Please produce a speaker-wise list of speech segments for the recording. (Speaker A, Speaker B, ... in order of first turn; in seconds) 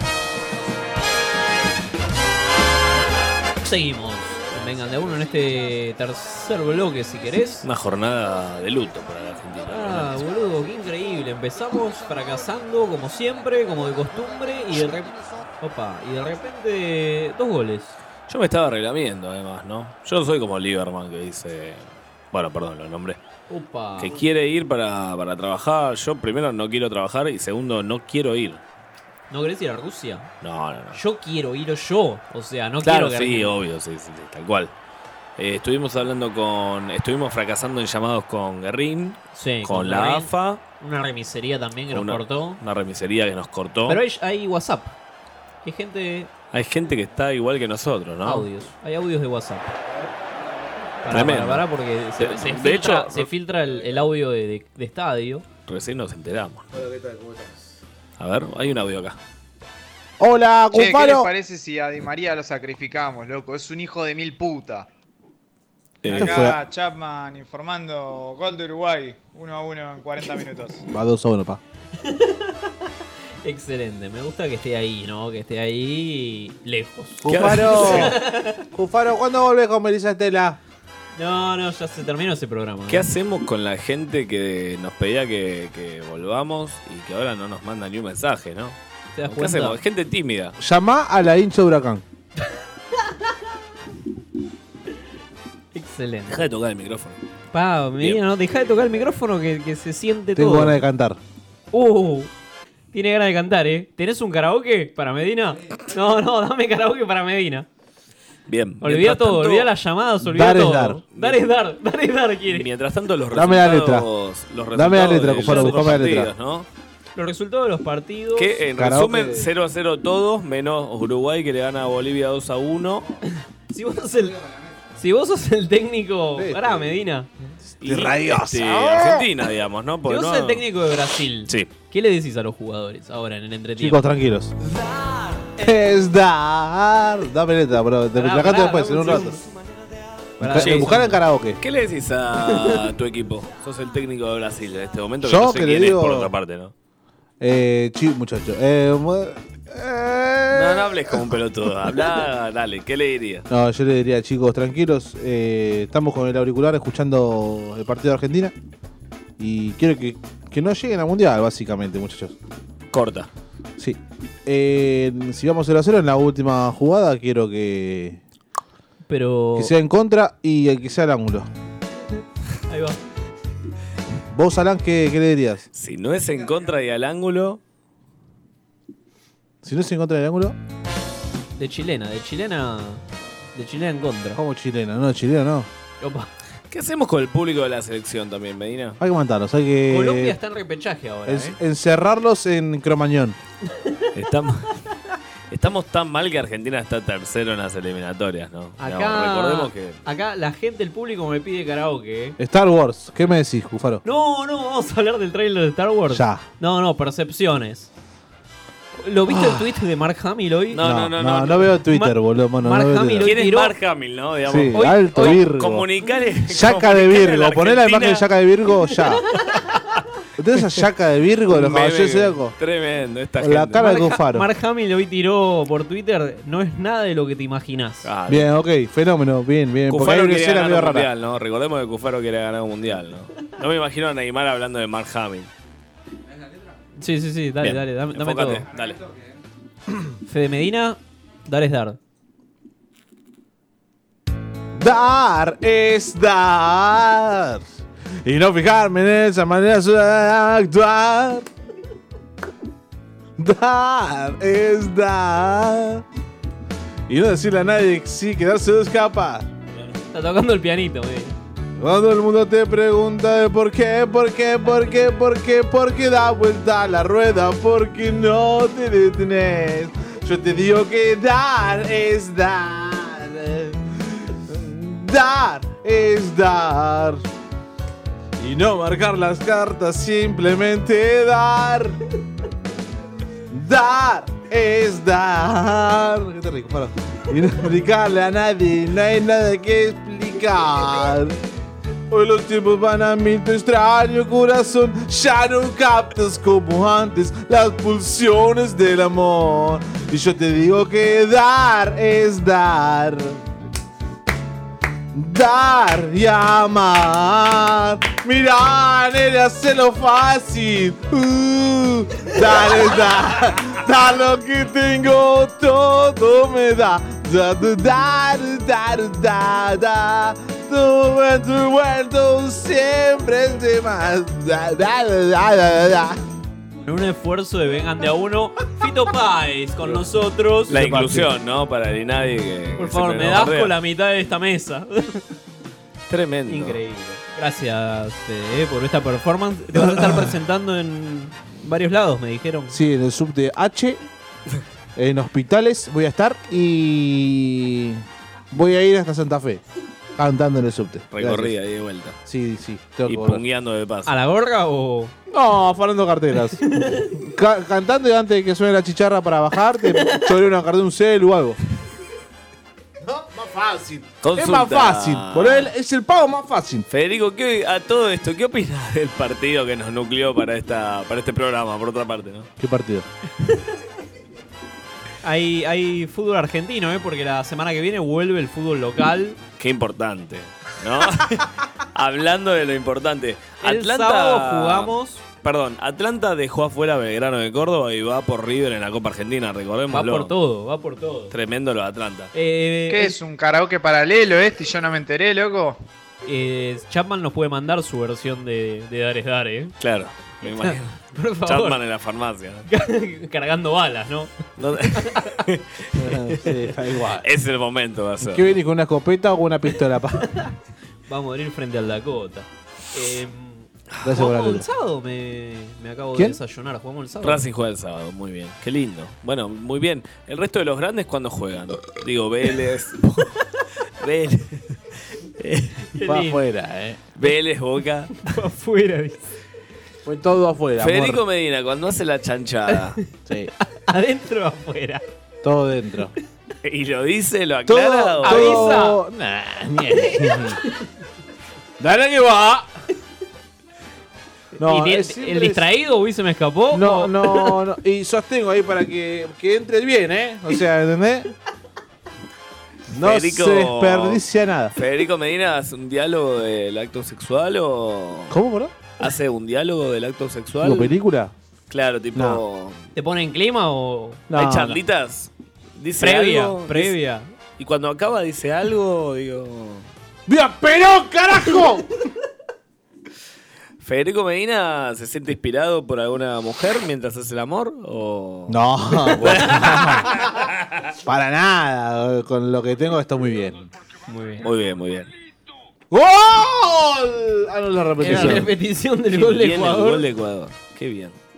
Speaker A: 3.6-7.6, 9.7-17.9, 23.5-24.2, 29.3-30.3, 30.9-33.5, 39.3-42.6, 43.9-45.0, 45.6-46.3, 48.2-49.7, 51.0-55.4, 72.0-72.5, 73.4-78.6, 81.1-83.0, 89.1-89.8, 95.7-96.4, 97.5-100.8, 101.7-102.3, 102.9-107.7, 108.8-112.7, 115.4-116.0, 117.2-118.6, 123.7-124.4, 125.0-127.3, 130.1-134.0, 138.2-139.4, 140.4-141.2, 169.1-169.7, 172.7-173.0, 181.6-184.4, 186.0-186.3, 189.9-191.6, 198.8-202.4, 204.0-207.9, 209.0-210.8, 211.9-213.7, 214.7-215.4, 223.8-228.1, 237.0-238.6, 240.2-242.0, 260.1-261.4, 326.8-330.8, 332.8-335.2, 336.5-342.8, 354.1-355.1, 356.7-357.1, 375.2-379.4, 383.6-385.2, 389.9-391.3, 392.3-393.2, 396.2-399.7, 400.4-401.8, 402.7-404.3, 411.1-417.4, 425.9-426.4, 428.2-429.3, 433.6-435.0, 438.2-439.0, 439.9-440.4, 444.6-447.5, 462.9-464.2, 466.0-467.3, 479.3-479.7, 484.1-484.5, 488.0-490.0
Speaker B: 7.6-10.2, 18.3-23.2, 24.0-28.6, 30.4-31.0, 32.8-34.7, 35.4-40.6, 41.9-44.0, 46.5-48.5, 51.1-51.6, 52.2-53.3, 55.6-56.7, 58.2-59.2, 66.0-66.5, 77.3-78.1, 82.9-90.5, 96.3-97.2, 108.5-109.7, 111.1-111.4, 112.5-116.7, 118.3-123.1, 127.8-130.6, 141.6-146.7, 150.5-153.4, 162.9-163.3, 175.7-177.6, 186.7-189.0, 194.1-194.7, 195.5-200.0, 210.7-211.7, 213.2-218.2, 221.5-224.0, 228.0-228.5, 229.9-235.5, 237.6-239.0, 330.7-333.7, 336.1-336.8, 351.1-352.1, 353.1-354.1, 364.2-365.7, 366.9-372.5, 379.6-390.3, 391.3-392.3, 399.8-402.7, 404.6-406.5, 407.2-408.6, 417.2-423.4, 424.0-424.8, 425.4-425.8, 427.2-428.1, 430.8-433.0, 436.6-438.7, 453.0-454.2, 454.7-458.3, 459.0-460.9, 461.7-462.8, 464.3-466.9, 467.6-469.9, 473.8-480.4, 484.4-485.1, 488.1-488.5, 489.1-491.2
Speaker C: 56.7-57.7, 60.2-61.3, 66.1-66.6, 70.9-71.6, 77.2-78.1, 78.7-80.6, 90.6-92.0, 100.3-101.2, 110.2-111.0, 113.3-114.1, 114.7-116.3, 118.8-119.5, 126.3-126.9, 127.6-129.2, 133.8-134.5, 135.6-139.4, 140.4-141.6, 145.2-146.3, 147.4-151.3, 153.5-158.5, 159.4-162.3, 163.8-168.2, 169.6-171.5, 174.3-175.7, 179.6-180.6, 184.3-185.7, 189.0-190.3, 191.2-193.4, 202.4-204.0, 206.1-206.4, 210.8-213.3, 214.4-215.9, 216.5-219.2, 220.4-222.5, 223.4-224.5, 228.3-231.1, 244.7-251.4, 253.4-256.0, 257.1-259.5, 261.8-277.2, 278.4-282.0, 283.5-291.4, 292.1-303.4, 305.1-326.2, 330.7-331.3, 342.7-344.0, 344.9-349.6, 350.2-351.5, 352.2-353.4, 355.3-356.6, 357.1-361.6, 363.0-366.9, 372.6-373.1, 405.9-407.3, 408.2-410.3, 414.0-414.7, 416.1-416.4, 426.0-427.0, 430.0-431.2, 435.4-436.1, 437.6-440.6, 441.8-442.7, 444.6-445.6, 446.7-451.3, 452.9-454.7, 458.3-458.7, 460.6-461.3, 462.1-462.4, 464.3-464.8, 470.2-471.9, 478.5-480.4, 481.0-483.7, 485.9-488.5
Speaker D: 60.7-64.9, 66.1-70.8, 392.9-395.8